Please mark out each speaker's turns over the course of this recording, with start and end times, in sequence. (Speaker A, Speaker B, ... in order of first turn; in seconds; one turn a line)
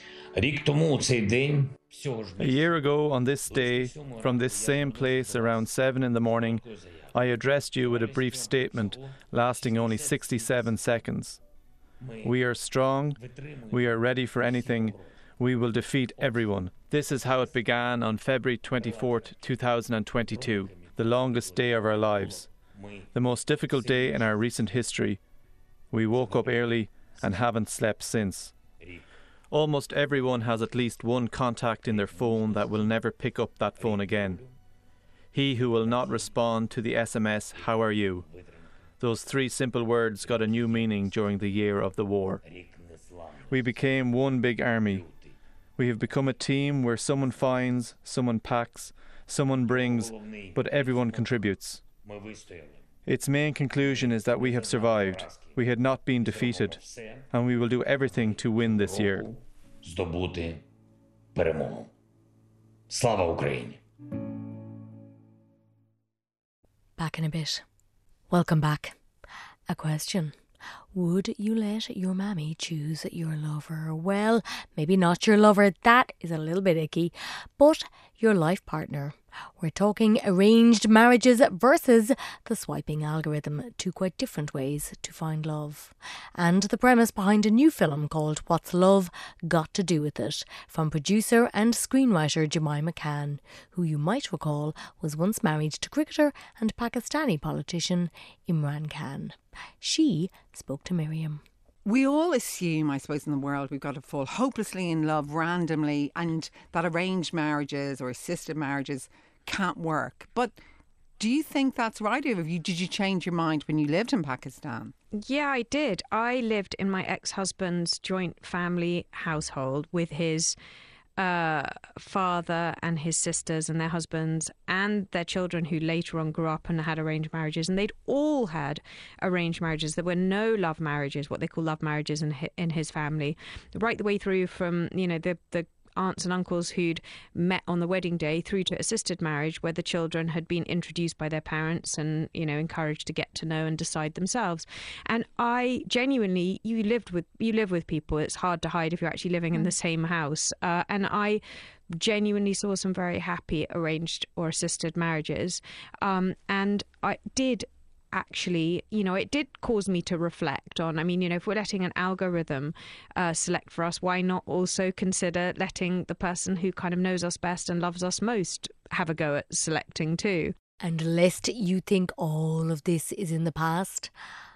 Speaker A: 0.3-2.7
Speaker B: 2.4-11.4
Speaker A: 3.4-10.9
Speaker A: 12.0-12.4
Speaker B: 12.2-22.5
Speaker A: 13.1-15.2
Speaker A: 16.1-17.7
Speaker A: 18.6-19.6
Speaker A: 20.2-23.1
Speaker B: 23.1-25.2
Speaker A: 23.7-24.4
Speaker B: 25.9-28.6
Speaker A: 26.1-27.5
Speaker A: 28.8-29.1
Speaker B: 29.5-34.4
Speaker A: 31.8-33.0
Speaker A: 33.7-34.5
Speaker B: 35.3-38.3
Speaker A: 35.8-36.4
Speaker A: 37.5-38.7
Speaker B: 39.0-42.4
Speaker A: 40.2-40.9
Speaker A: 42.4-43.9
Speaker B: 43.5-45.1
Speaker A: 44.8-45.4
Speaker B: 45.8-51.8
Speaker A: 49.6-52.9
Speaker B: 53.0-59.3
Speaker A: 53.7-57.3
Speaker A: 57.9-60.6
Speaker A: 61.3-61.9
Speaker A: 62.9-63.8
Speaker C: 67.0-67.6
Speaker C: 68.3-69.0
Speaker C: 69.7-70.4
Speaker C: 70.9-101.4
Speaker D: 101.8-110.6
Speaker D: 111.2-114.9
Speaker E: 115.2-120.5
Speaker E: 121.2-151.4
Speaker E: 151.9-170.5
Speaker C: 170.8-174.1